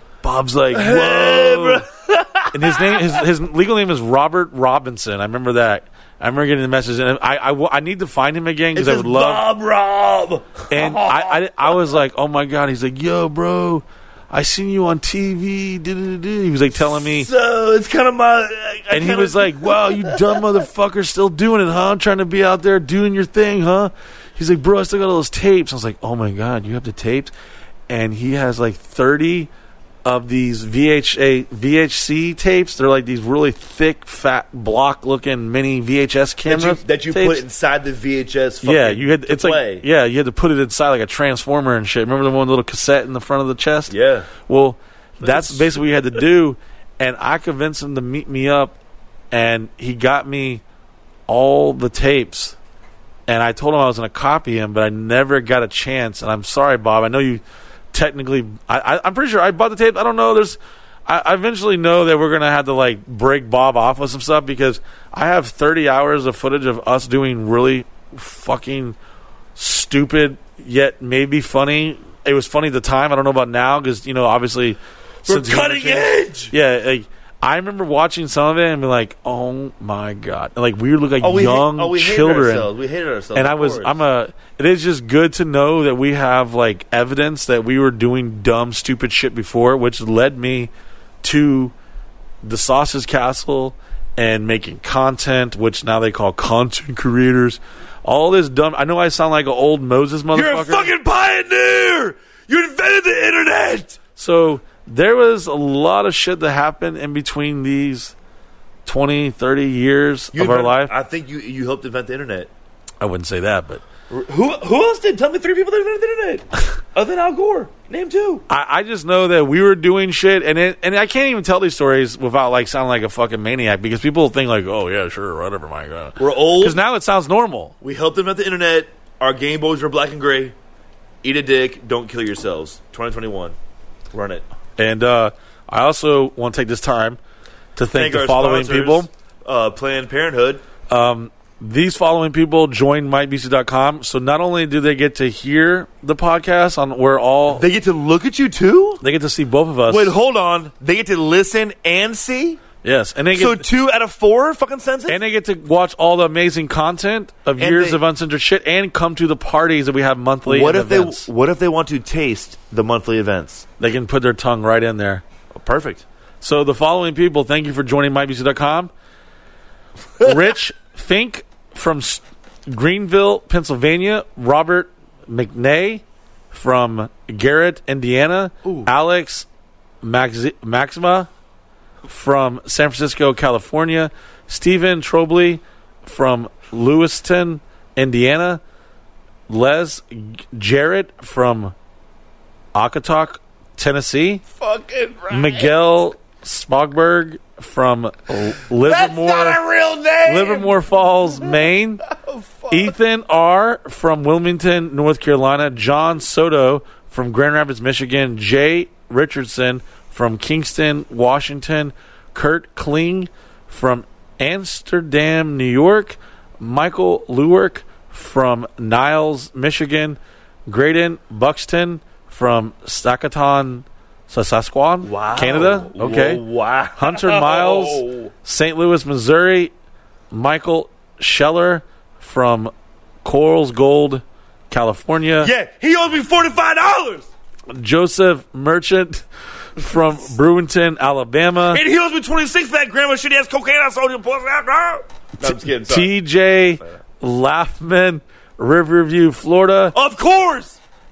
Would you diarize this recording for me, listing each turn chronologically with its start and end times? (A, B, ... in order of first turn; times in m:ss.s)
0:00.2-0:01.9 A
0:00.7-0:03.2 B
0:02.5-0:09.4 A
0:08.8-0:11.8 B
0:10.7-0:17.3 A
0:16.9-0:20.4 B
0:18.9-0:27.3 A
0:27.9-0:29.5 A
0:30.0-0:37.4 A
0:36.4-0:39.8 B
0:38.6-0:43.9 A
0:43.9-0:44.3 B
0:44.4-0:48.8 A
0:45.2-0:45.8 B
0:49.3-0:50.6 A
0:51.3-0:52.6 A
0:53.3-0:57.4 A
0:57.9-1:09.0 A
1:09.6-1:22.7 A
1:15.3-1:16.5 B
1:21.2-1:24.0 B
1:23.4-1:30.7 A
1:31.2-1:31.7 A
1:32.4-1:40.9 A
1:40.3-1:44.0 B
1:44.2-1:48.1 A
1:48.9-1:50.9 A
1:50.3-1:52.5 B
1:53.0-1:53.8 A
1:54.1-1:58.4 B
1:58.5-2:07.7 A
2:06.2-2:06.8 B
2:07.8-2:10.6 B
2:11.2-2:13.6 B
2:14.1-2:14.5 B
2:14.8-2:17.2 A
2:17.8-2:19.1 A
2:17.9-2:20.6 B
2:20.9-2:27.6 A
2:27.5-2:29.0 B
2:29.0-2:30.2 A
2:29.9-2:32.6 B
2:32.8-2:33.7 A
2:33.3-2:35.2 B
2:35.1-2:41.3 A
2:37.6-2:38.0 B
2:40.5-2:43.7 B
2:43.8-2:45.2 A
2:45.5-2:46.0 B
2:46.4-2:48.9 A
2:50.2-2:59.5 A
3:00.0-3:01.3 A
3:02.1-3:08.6 A
3:09.5-3:11.7 A
3:12.8-3:14.4 A
3:14.5-3:15.9 B
3:15.3-3:19.6 A
3:18.7-3:20.8 B
3:20.2-3:22.0 A
3:22.1-3:23.0 B
3:22.7-3:46.4 A
3:45.0-3:48.3 B
3:47.0-3:49.7 A
3:50.3-3:52.7 A
3:53.2-3:55.5 A
3:55.4-3:57.3 B
3:57.7-3:59.2 A
3:59.8-4:01.8 A
4:01.6-4:06.2 B
4:05.5-4:10.0 A
4:09.9-4:10.8 B